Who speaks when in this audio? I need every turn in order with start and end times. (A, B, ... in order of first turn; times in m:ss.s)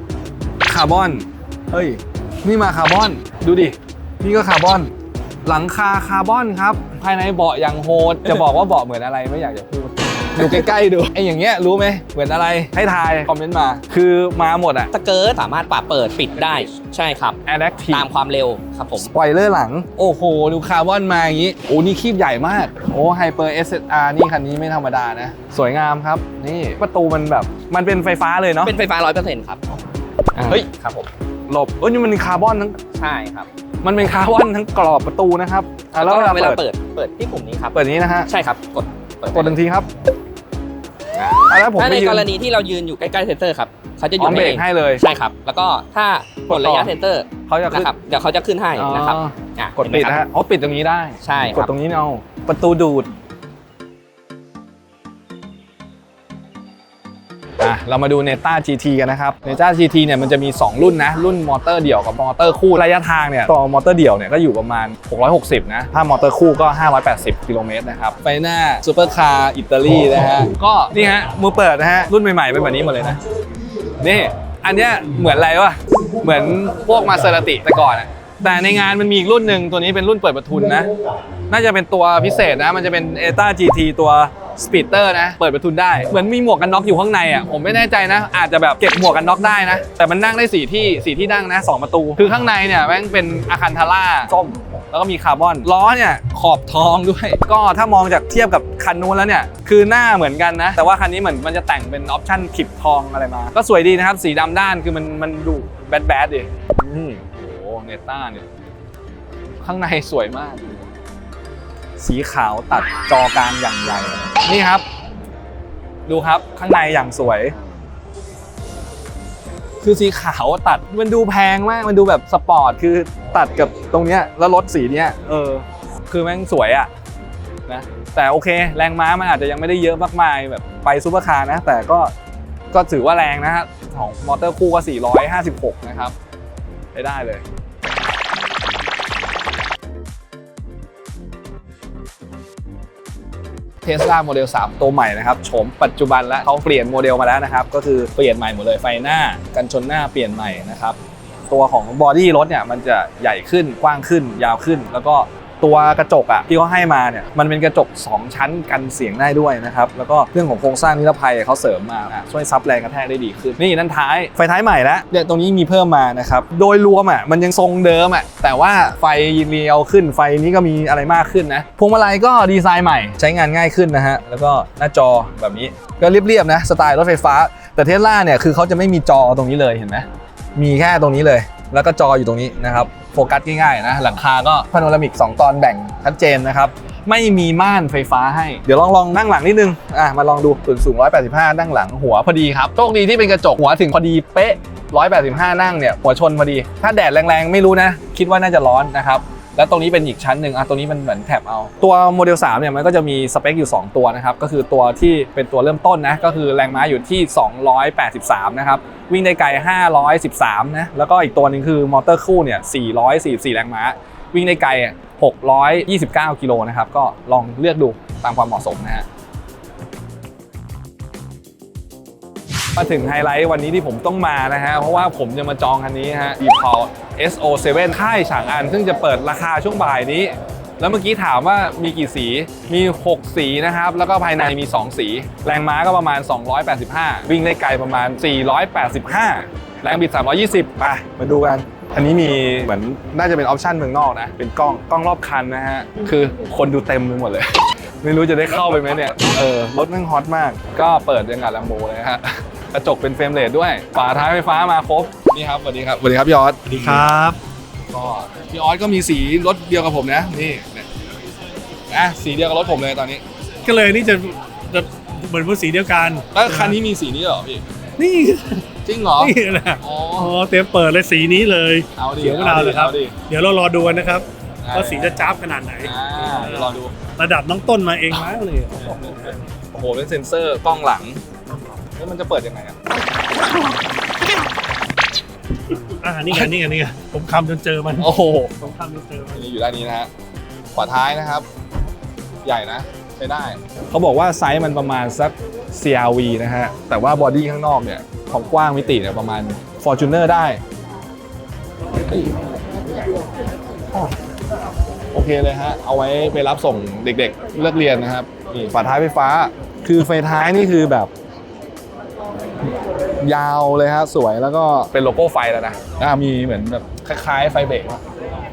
0:00.7-0:04.9 A
0:05.4-0:14.9 A
0:14.9-0:17.4 B
0:17.4-0:18.1 A
0:17.9-0:19.1 B
0:19.0-0:28.8 A
0:28.6-0:29.6 B
0:30.4-0:31.1 B
0:31.5-0:32.8 A
0:33.0-0:33.5 B
0:33.8-0:36.6 A
0:36.0-0:37.8 B
0:37.7-0:38.3 A
0:38.3-0:39.6 B
0:39.3-0:39.9 A
0:41.2-0:50.2 B
0:41.4-0:42.3 A
0:44.2-0:45.0 A
0:46.5-0:47.0 A
0:47.5-0:47.9 A
0:48.8-0:53.1 A
0:51.2-0:51.7 B
0:57.6-1:13.2 A
1:14.0-1:20.9 A
1:21.5-1:48.5 A
1:49.6-1:50.8 A
1:52.0-1:54.8 A
1:56.1-1:57.5 A
1:59.8-2:06.9 A
2:07.7-2:12.1 A
2:12.7-2:16.2 A
2:16.9-2:17.4 A
2:23.8-3:39.1 A
3:42.8-4:17.2 A
4:16.7-4:17.4 C
4:17.9-4:20.9 A
4:21.9-4:23.2 A
4:23.6-4:26.8 C
4:26.3-4:27.6 A
4:28.0-4:39.4 C
4:28.8-4:30.4 A
4:32.0-4:33.2 A
4:34.6-4:35.2 A
4:35.8-4:37.0 A
4:38.9-4:41.2 A
4:42.0-4:42.8 A
4:45.7-4:49.5 C
4:48.0-4:48.6 A
4:49.3-4:50.1 A
4:50.7-4:51.5 A
4:52.4-5:00.6 A
5:02.1-5:02.4 A
5:05.1-5:11.1 A
5:13.2-5:18.0 A